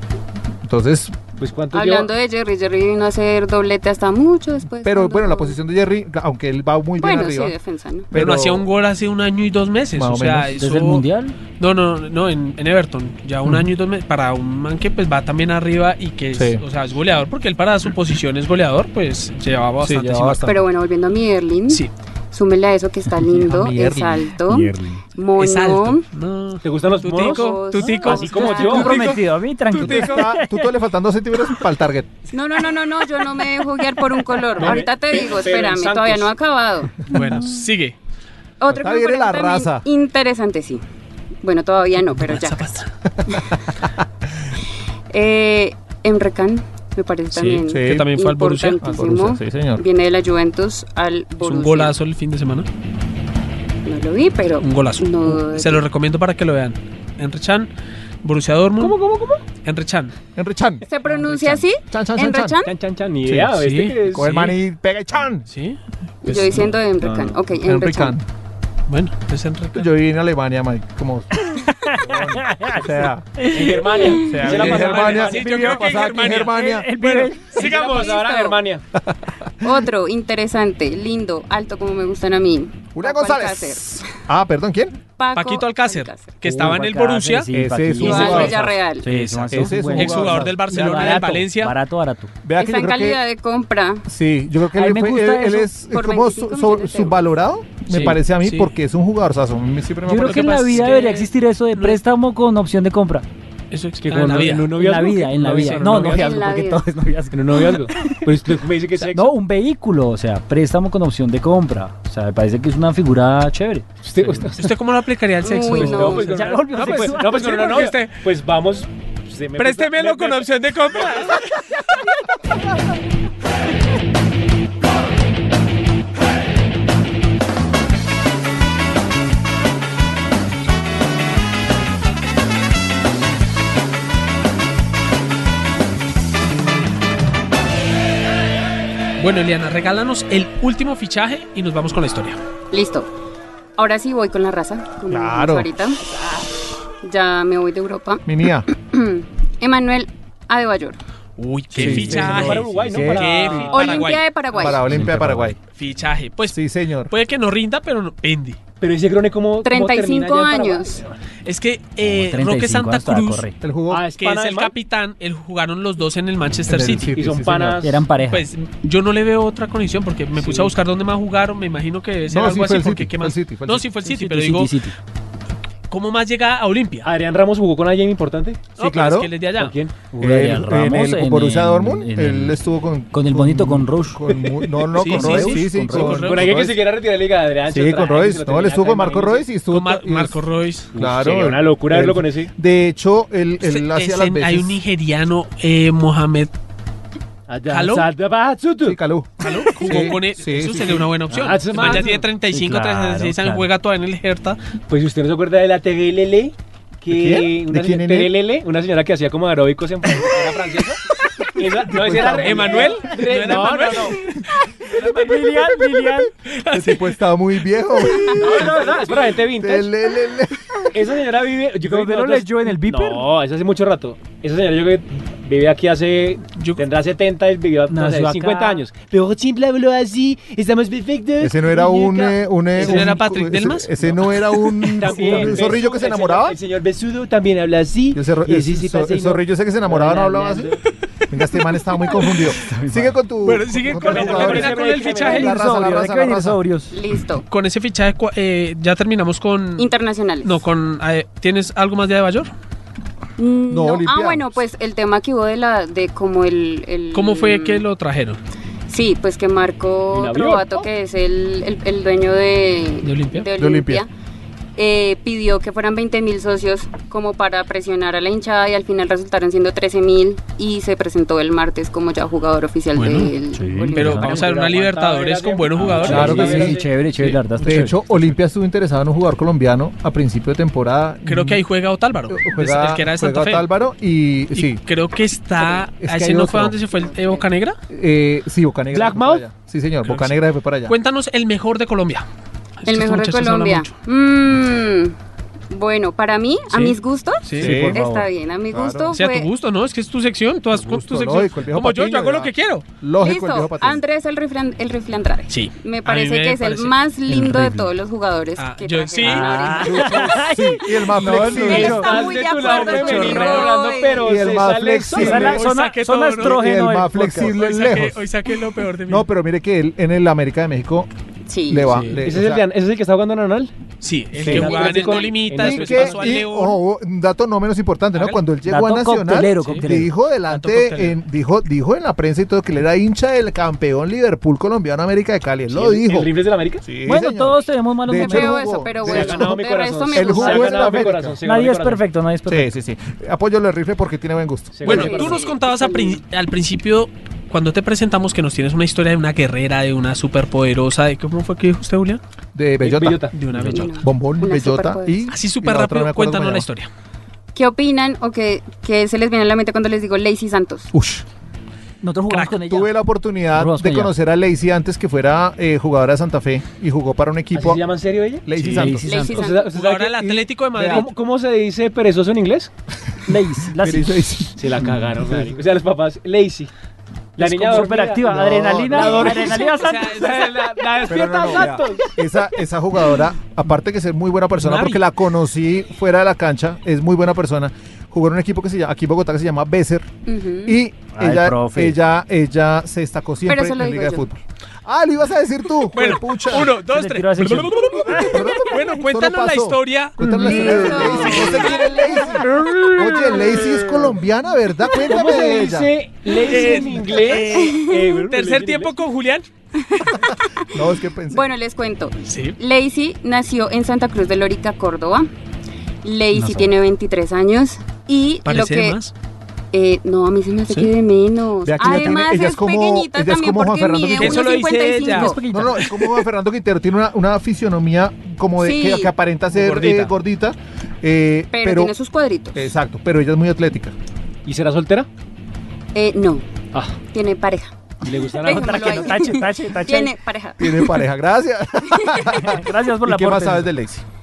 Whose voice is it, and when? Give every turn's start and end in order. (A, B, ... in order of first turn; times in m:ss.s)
0:00.6-0:01.1 A
0:01.4-0:02.1 B
0:01.7-0:05.6 C
0:04.8-0:07.5 A
0:07.0-0:08.1 C
0:08.1-0:08.6 A
0:08.1-0:11.0 D
0:09.9-0:10.6 A
0:10.6-0:11.4 E
0:11.6-0:20.5 D
0:13.4-0:13.7 A
0:16.3-0:16.6 A
0:19.8-0:20.6 A
0:20.4-0:26.0 C
0:23.2-0:24.2 A
0:24.5-0:25.0 E
0:25.4-0:30.3 D
0:26.6-0:27.4 B
0:27.2-0:29.1 C
0:27.7-0:30.7 E
0:28.0-0:29.1 B
0:29.7-0:32.1 A
0:32.3-0:37.1 C
0:34.6-0:36.3 B
0:37.1-0:38.0 D
0:38.6-0:40.8 C
0:38.7-0:39.8 A
0:41.4-0:42.8 C
0:42.2-0:42.9 D
0:45.1-0:51.9 C
0:47.3-0:48.8 D
0:47.7-0:48.1 A
0:48.8-0:49.8 A
0:51.4-0:52.7 D
0:53.8-0:55.8 C
0:54.6-0:57.7 D
0:58.2-0:59.0 D
0:58.8-0:59.4 B
0:59.6-1:00.1 D
1:00.4-1:00.8 A
1:00.9-1:02.7 C
1:01.0-1:01.5 B
1:01.8-1:02.6 A
1:02.6-1:04.3 B
1:03.2-1:03.5 A
1:03.5-1:04.6 D
1:04.1-1:05.4 A
1:05.5-1:06.7 D
1:06.2-1:08.1 C
1:07.0-1:07.4 B
1:07.5-1:08.2 A
1:08.9-1:09.9 D
1:09.7-1:13.3 A
1:11.5-1:14.2 E
1:13.5-1:16.0 B
1:14.2-1:16.9 A
1:14.4-1:18.2 D
1:16.5-1:17.6 E
1:17.5-1:18.8 B
1:17.6-1:18.6 C
1:19.0-1:19.5 A
1:19.6-1:24.0 C
1:22.9-1:25.0 A
1:25.2-1:26.3 C
1:25.3-1:27.5 D
1:26.4-1:32.3 E
1:27.5-1:28.7 A
1:28.0-1:29.1 C
1:28.0-1:31.7 D
1:29.5-1:31.3 A
1:32.4-1:33.2 A
1:32.6-1:34.0 C
1:34.1-1:40.8 A
1:34.7-1:35.7 E
1:35.9-1:37.2 C
1:37.9-1:38.7 D
1:40.0-1:43.2 E
1:40.2-1:42.0 D
1:43.7-1:44.8 D
1:44.0-1:46.5 B
1:44.7-1:48.2 E
1:46.0-1:46.8 C
1:47.3-1:49.3 B
1:49.0-1:54.4 E
1:54.0-1:54.7 B
1:54.6-1:58.2 D
1:55.4-1:56.3 C
1:55.6-2:01.2 B
1:56.2-1:57.9 E
1:59.6-2:01.6 D
2:19.2-2:22.4 D
2:22.7-2:23.1 C
2:23.8-2:26.0 C
2:25.1-2:25.7 A
2:27.0-2:31.0 C
2:28.2-2:28.6 A
2:31.4-2:34.2 D
2:31.7-2:33.6 A
2:31.8-2:34.1 B
2:31.8-2:32.2 E
2:33.7-2:34.9 C
2:34.5-2:35.6 A
2:34.9-2:35.5 E
2:35.7-2:38.6 D
2:36.5-2:37.1 A
2:38.8-2:41.1 B
2:39.6-2:41.0 C
2:41.4-2:43.4 D
2:42.0-2:43.6 E
2:43.6-2:44.0 A
2:43.9-2:44.7 B
2:44.2-2:47.1 D
2:46.7-2:47.8 A
2:47.1-2:48.0 B
2:47.8-2:48.5 E
2:48.2-2:54.7 D
2:50.4-2:50.7 B
2:52.3-2:53.8 A
2:54.0-2:54.9 E
2:55.9-2:57.1 D
2:57.0-2:58.6 B
2:58.8-2:59.7 D
2:58.8-2:59.3 A
2:59.6-2:59.9 B
3:00.1-3:02.6 E
3:00.2-3:06.9 A
3:03.1-3:04.3 E
3:05.0-3:06.3 E
3:05.0-3:06.6 D
3:06.1-3:09.5 B
3:07.7-3:10.4 A
3:09.7-3:10.9 D
3:10.9-3:14.8 A
3:11.0-3:12.5 B
3:13.6-3:16.5 D
3:17.5-3:19.0 B
3:17.7-3:18.1 D
3:18.8-3:21.0 A
3:19.4-3:24.6 D
3:21.3-3:22.2 B
3:21.8-3:23.7 E
3:24.9-3:31.0 B
3:27.1-3:28.3 A
3:31.6-3:34.2 B
3:31.9-3:32.9 A
3:32.4-3:34.4 D
3:34.9-3:35.7 B
3:35.0-3:36.3 E
3:36.5-3:37.2 D
3:36.7-3:38.8 A
3:38.4-3:39.9 B
3:39.5-3:40.8 A
3:40.9-3:53.2 B
3:41.8-3:43.3 E
3:47.9-3:48.8 E
3:51.4-3:56.6 A
3:52.8-3:53.9 D
3:54.9-4:00.8 B
3:55.1-3:55.7 E
3:58.1-4:00.7 A
4:01.3-4:06.6 A
4:02.0-4:02.5 D
4:02.6-4:03.1 E
4:03.4-4:05.5 D
4:04.0-4:05.5 B
4:05.2-4:06.9 E
4:06.9-4:07.4 C
4:07.5-4:09.9 D
4:09.8-4:10.6 C
4:10.4-4:12.5 D
4:13.4-4:17.8 C
4:13.7-4:14.6 A
4:17.1-4:18.4 D
4:18.9-4:24.1 C
4:20.1-4:20.7 B
4:23.0-4:23.5 D
4:23.6-4:24.0 A
4:24.8-4:34.4 C
4:32.9-4:33.3 D
4:33.5-4:34.4 E
4:33.9-4:37.4 D
4:34.2-4:36.9 B
4:35.8-4:38.0 E
4:36.0-4:36.8 A
4:37.6-4:41.6 A
4:41.2-4:43.7 D
4:42.3-4:44.8 A
4:44.5-4:47.8 D
4:45.6-4:46.8 A
4:46.9-4:47.4 C
4:47.9-4:50.9 A
4:48.9-4:49.4 B
4:50.0-4:52.2 D
4:52.8-4:53.9 D
4:52.9-4:55.1 C
4:55.7-4:59.5 C
4:56.7-4:57.7 D
4:57.6-4:58.0 A
4:57.6-4:58.2 E
4:58.7-4:59.2 A
4:59.1-5:02.8 D
5:00.7-5:04.0 A
5:03.2-5:10.3 C
5:05.5-5:07.0 D
5:07.3-5:07.9 E
5:08.6-5:09.5 D
5:09.2-5:13.7 E
5:09.6-5:12.0 A
5:11.4-5:15.6 B
5:11.5-5:14.4 C
5:12.6-5:13.9 D
5:14.2-5:15.6 A
5:15.1-5:17.5 E
5:15.2-5:16.6 D
5:16.4-5:18.3 A
5:17.4-5:19.3 D
5:19.1-5:21.1 A
5:21.5-5:22.0 C
5:21.7-5:22.6 A
5:21.9-5:22.2 D
5:22.2-5:23.7 B
5:24.0-5:26.8 D
5:24.4-5:26.4 B
5:24.4-5:24.9 A
5:24.7-5:25.3 C
5:25.5-5:36.3 A
5:28.1-5:28.4 D
5:28.6-5:30.1 E
5:30.5-5:31.2 D
5:35.7-5:36.8 B
5:36.8-5:39.6 A
5:37.0-5:38.6 E
5:38.1-5:41.1 C
5:39.0-5:42.0 B
5:40.1-5:41.4 A
5:41.4-5:42.7 E
5:42.5-5:45.0 A
5:44.7-5:45.5 B
5:44.8-5:52.2 D
5:44.8-5:46.2 C
5:52.5-5:53.2 A
5:52.8-5:53.4 B
5:53.3-5:54.0 D
5:53.7-5:55.2 C
5:54.0-5:56.7 A
5:55.3-5:56.9 D
5:57.5-6:00.9 C
6:00.9-6:01.2 A
6:02.0-6:02.9 E
6:02.3-6:02.6 D
6:02.6-6:07.8 A
6:03.5-6:04.1 E
6:07.5-6:10.2 B
6:08.4-6:09.1 A
6:08.6-6:08.8 D
6:08.7-6:09.4 E
6:09.0-6:09.7 C
6:09.6-6:11.1 D
6:10.0-6:11.0 A
6:10.8-6:12.7 B
6:13.3-6:14.2 E
6:13.8-6:14.7 A
6:14.6-6:16.7 B
6:17.4-6:22.1 B
6:17.4-6:20.1 E
6:18.3-6:19.4 A
6:19.4-6:20.8 D
6:21.1-6:30.1 A
6:24.6-6:25.0 D
6:30.2-6:30.8 C
6:30.6-6:36.7 A
6:31.1-6:32.0 E
6:33.4-6:34.2 C
6:35.9-6:41.8 D
6:36.9-6:38.5 E
6:38.2-6:45.9 A
6:40.2-6:40.7 B
6:40.4-6:42.2 C
6:42.5-6:44.0 B
6:45.0-6:48.9 B
6:46.3-6:49.4 D
6:47.5-6:48.2 C
6:49.8-6:55.3 C
6:50.7-6:51.5 A
6:52.2-6:52.6 D
6:56.0-6:59.0 C
6:56.3-6:56.7 E
6:58.4-6:59.1 D
6:59.7-7:05.4 C
7:01.6-7:04.5 A
7:01.8-7:02.2 E
7:04.2-7:05.3 D
7:05.0-7:05.8 E
7:05.5-7:11.9 A
7:08.6-7:09.1 C
7:09.6-7:10.1 B
7:11.5-7:12.7 C
7:12.5-7:13.9 A
7:14.4-7:15.1 B
7:15.9-7:16.4 C
7:17.1-7:21.0 C
7:18.0-7:19.1 B
7:18.3-7:20.1 E
7:20.6-7:24.0 A
7:21.9-7:22.4 C
7:22.4-7:23.7 E